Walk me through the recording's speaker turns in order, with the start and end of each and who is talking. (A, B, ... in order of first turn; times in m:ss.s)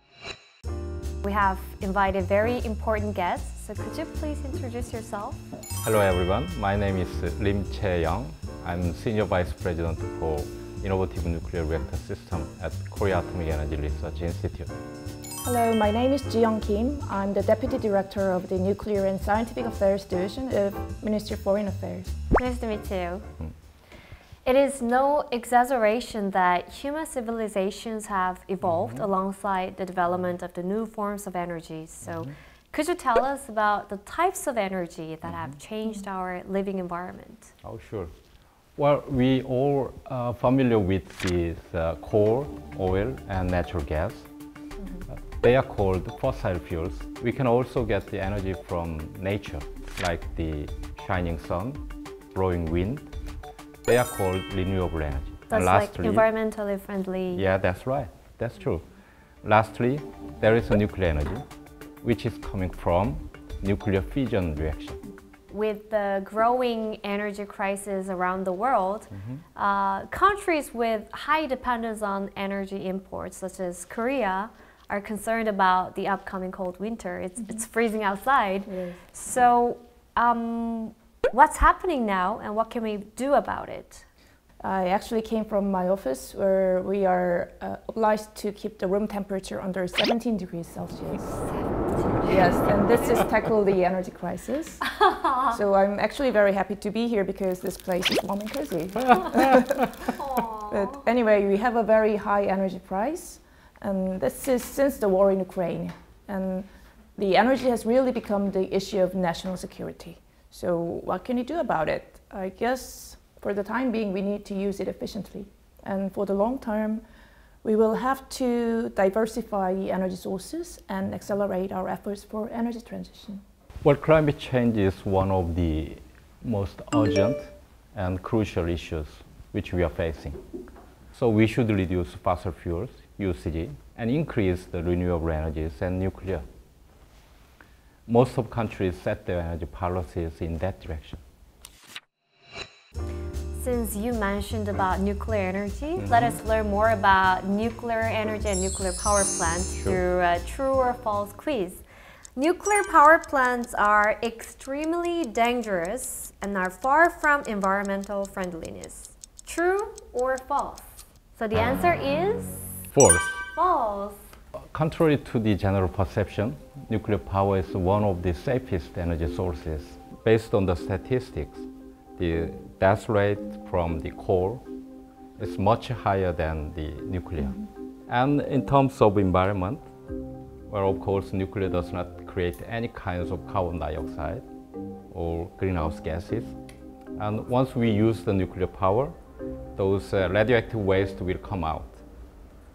0:01.2-0:05.4 A
0:05.8-0:14.7 B
0:15.4-0:22.1 C
0:22.4-0:23.2 A
0:24.4-0:37.5 A
0:28.6-0:29.0 B
0:32.0-0:32.3 B
0:35.2-0:35.5 B
0:37.6-0:38.1 B
0:38.8-0:44.2 B
0:45.4-0:51.8 B
0:52.3-0:53.1 B
0:53.8-0:56.3 B
0:55.5-0:57.4 A
0:57.3-0:58.8 B
0:59.4-1:01.4 B
1:02.0-1:05.0 B
1:05.5-1:24.0 A
1:09.1-1:09.4 B
1:18.7-1:19.0 C
1:24.6-1:31.4 C
1:31.2-1:33.2 A
1:32.3-1:34.9 C
1:34.8-1:35.6 A
1:35.5-1:57.0 C
1:40.0-1:41.0 A
1:57.6-2:03.4 C
2:03.8-2:10.4 B
2:11.1-2:16.4 B
2:18.1-2:21.2 B
2:23.5-2:31.8 A
2:26.0-2:26.4 B
2:32.4-2:42.8 A
2:42.9-2:43.4 B
2:43.5-2:44.2 A
2:44.6-2:54.6 B
2:55.4-2:59.8 B
2:57.4-2:57.7 C
3:00.7-3:04.5 B
3:05.1-3:06.6 B
3:07.2-3:09.1 B
3:09.8-3:12.0 B